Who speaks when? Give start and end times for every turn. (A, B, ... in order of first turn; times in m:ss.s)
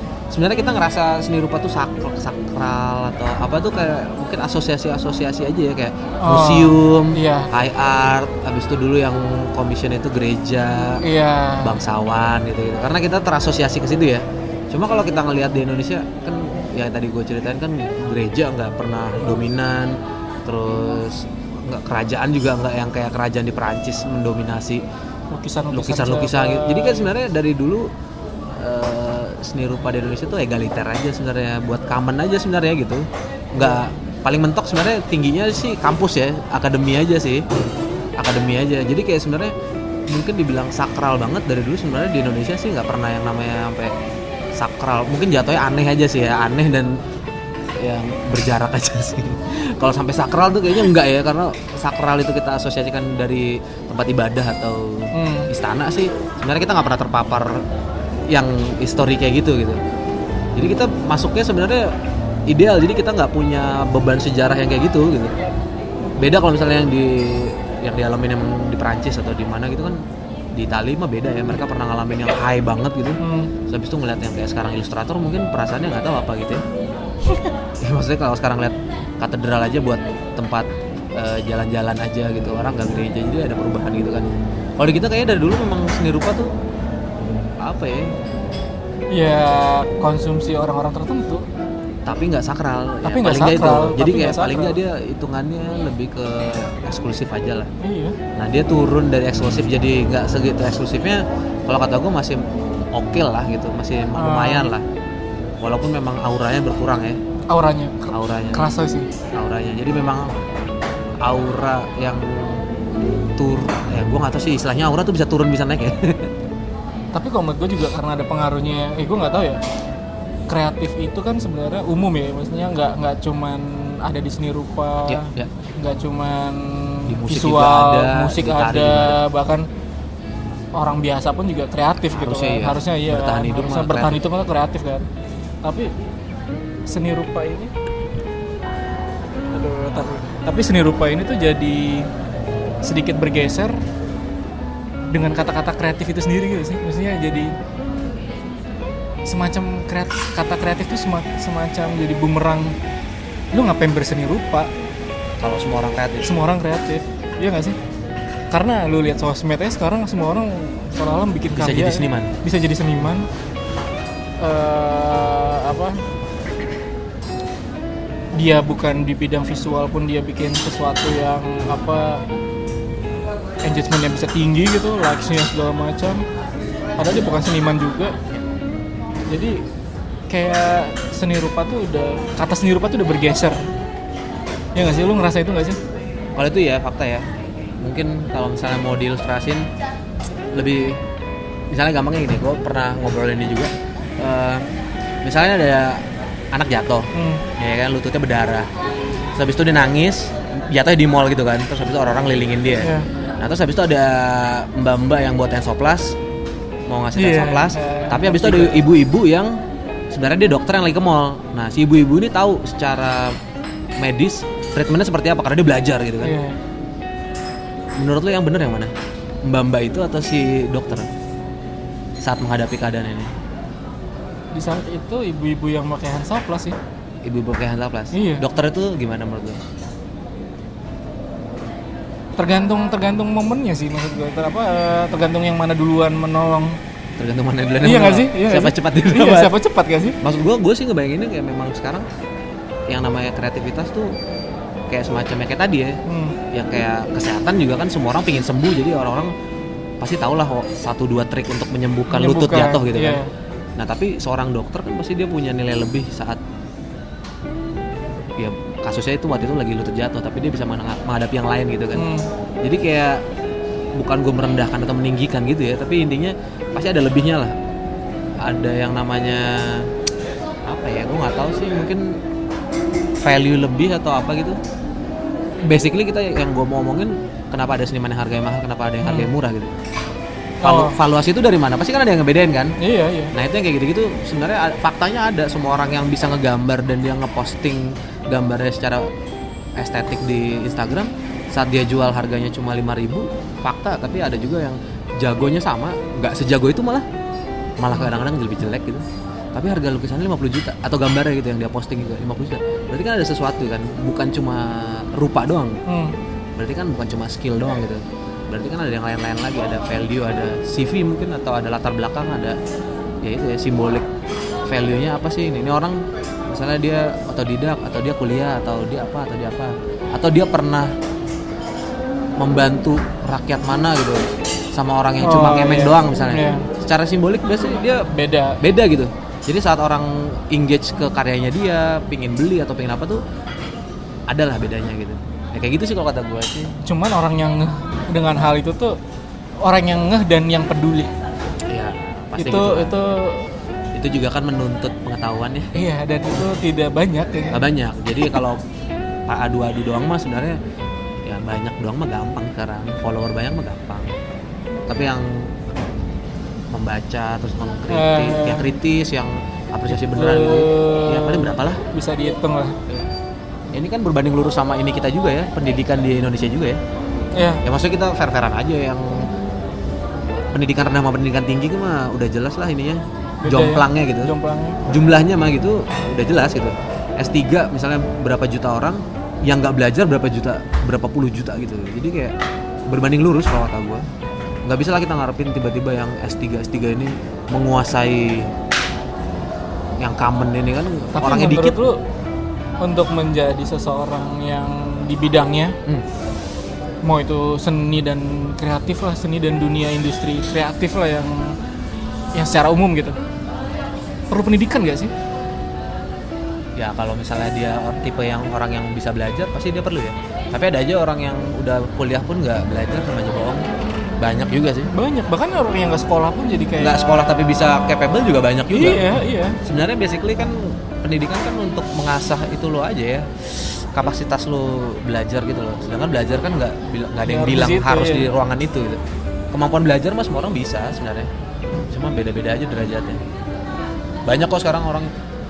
0:00.3-0:11.0 A
0:06.2-0:07.5 B
0:11.0-0:11.8 B
0:11.6-0:24.8 A
0:25.3-0:27.1 B
0:25.7-0:27.9 A
0:28.6-0:37.4 A
0:38.2-0:39.5 A
0:40.1-0:43.9 A
0:44.6-0:47.0 A
0:47.8-0:57.6 A
0:55.1-0:55.5 B
0:58.3-0:59.8 A
1:00.6-1:01.9 A
1:02.5-1:05.3 A
1:06.2-1:10.0 A
1:10.6-1:16.6 A
1:13.2-1:13.5 B
1:17.8-1:26.5 A
1:27.6-1:28.1 A
1:29.1-1:31.5 B
1:32.0-1:37.7 A
1:33.0-1:34.8 B
1:37.8-1:38.2 B
1:38.4-1:44.8 A
1:44.2-1:44.7 B
1:45.6-1:47.2 A
1:47.5-1:49.1 B
1:48.1-1:48.6 A
1:49.4-1:50.4 A
1:51.2-1:52.7 A
1:53.2-1:56.3 A
1:57.2-1:59.6 B
2:00.5-2:09.7 B
2:05.1-2:05.5 A
2:07.1-2:09.2 A
2:10.8-2:15.0 B
2:12.1-2:14.2 A
2:15.6-2:15.9 B
2:16.9-2:17.7 B
2:19.5-2:22.1 B
2:22.8-2:23.8 B
2:25.1-2:27.5 B
2:29.3-2:32.8 B
2:33.5-2:34.7 B
2:35.4-2:36.4 A
2:36.2-2:37.8 B
2:38.5-2:43.3 B
2:41.5-2:42.4 A
2:44.4-2:46.0 B
2:48.4-2:52.2 B
2:53.6-2:56.2 B
2:57.0-2:58.2 B
2:59.3-2:59.6 B
3:00.3-3:03.6 B
3:04.8-3:05.8 B
3:06.4-3:07.2 A
3:07.8-3:09.7 A
3:10.5-3:11.0 A
3:11.7-3:14.7 A
3:15.2-3:18.7 A
3:17.1-3:17.4 B
3:19.4-3:26.2 A
3:22.8-3:23.1 B
3:26.9-3:29.6 A
3:27.2-3:28.8 B
3:30.1-3:33.4 A
3:34.0-3:36.4 A
3:36.2-3:36.6 B
3:38.0-3:38.9 A
3:39.4-3:41.1 A
3:42.2-3:43.3 A
3:44.5-3:46.8 B
3:47.2-3:49.6 A
3:48.1-3:48.4 B
3:52.4-3:56.8 B
3:57.2-3:59.6 A
3:57.8-4:00.2 B
4:00.2-4:02.1 A
4:02.9-4:04.1 A
4:04.9-4:06.0 A
4:06.1-4:06.4 B
4:06.5-4:09.3 A
4:10.0-4:13.2 A
4:12.1-4:13.3 B
4:13.8-4:16.4 A
4:18.4-4:22.1 A
4:22.0-4:22.3 B
4:22.6-4:23.2 A
4:24.0-4:27.5 A
4:28.4-4:29.9 A
4:30.7-4:32.0 A
4:33.2-4:34.6 A
4:35.6-4:39.7 A
4:39.0-4:39.3 B
4:40.6-4:41.0 B
4:40.6-4:42.8 A
4:42.8-4:43.3 B
4:43.3-4:49.1 A
4:49.8-4:57.1 A
4:57.8-5:05.8 A
5:05.9-5:06.2 B
5:06.6-5:12.6 A
5:13.2-5:14.1 A
5:14.7-5:20.9 A
5:22.4-5:28.1 A
5:25.2-5:26.7 B
5:28.1-5:28.6 B
5:28.6-5:33.2 A
5:34.3-5:36.7 A
5:36.9-5:39.0 B
5:39.6-5:41.1 B
5:41.7-5:43.0 A
5:42.4-5:43.5 B
5:43.9-5:45.7 A
5:45.7-5:47.6 B
5:47.5-5:48.6 A
5:49.3-5:50.6 A
5:51.3-5:54.1 A
5:54.9-5:55.5 A
5:56.7-6:01.8 A
5:57.9-5:58.7 B
5:59.9-6:02.8 B
6:03.7-6:06.8 A
6:07.4-6:07.6 B
6:07.6-6:09.3 A
6:10.5-6:14.3 A
6:13.4-6:14.8 B
6:14.9-6:22.4 A
6:22.9-6:24.1 A
6:24.7-6:28.5 A
6:30.0-6:31.8 A
6:31.2-6:32.0 B
6:32.8-6:35.8 B
6:37.0-6:41.6 B
6:42.4-6:43.2 B
6:44.3-6:45.1 B
6:46.8-6:53.6 A
6:54.2-6:54.9 A
6:54.9-6:57.7 B
6:56.8-7:09.0 A
6:58.7-6:59.6 B
7:07.2-7:08.3 B
7:09.5-7:11.3 A
7:11.9-7:13.2 A
7:14.3-7:15.1 A